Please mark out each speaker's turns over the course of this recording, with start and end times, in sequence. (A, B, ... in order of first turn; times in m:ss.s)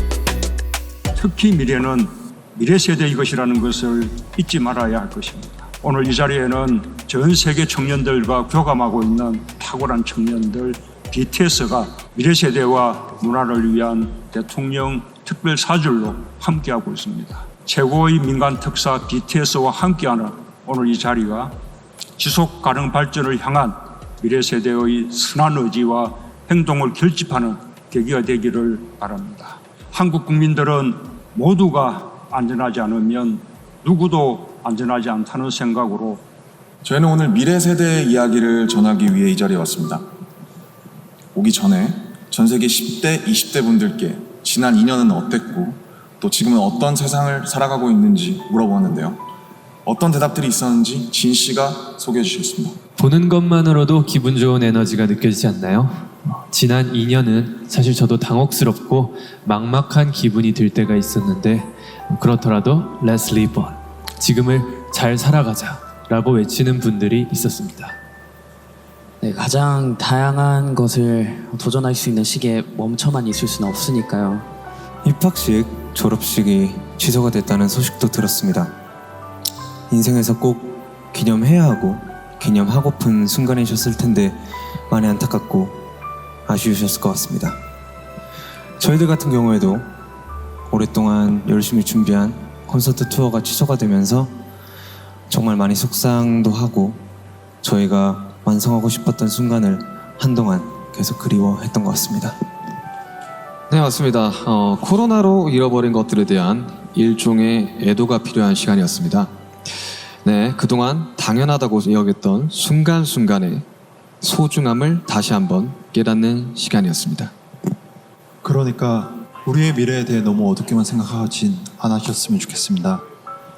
0:01.2-0:21.5 A
0:22.2-0:36.2 A
0:36.8-0:40.0 B
0:41.3-0:49.2 B
0:49.8-0:52.8 B
0:53.0-1:07.9 C
1:09.2-1:14.4 D
1:15.0-1:18.7 E
1:19.9-1:25.8 E
1:26.5-1:27.6 E
1:28.8-1:29.9 E
1:30.7-1:34.3 E
1:35.3-1:37.0 E
1:37.6-1:42.3 E
1:43.7-1:49.3 F
1:50.2-1:53.6 F
1:54.2-1:57.3 F
1:58.4-2:03.0 G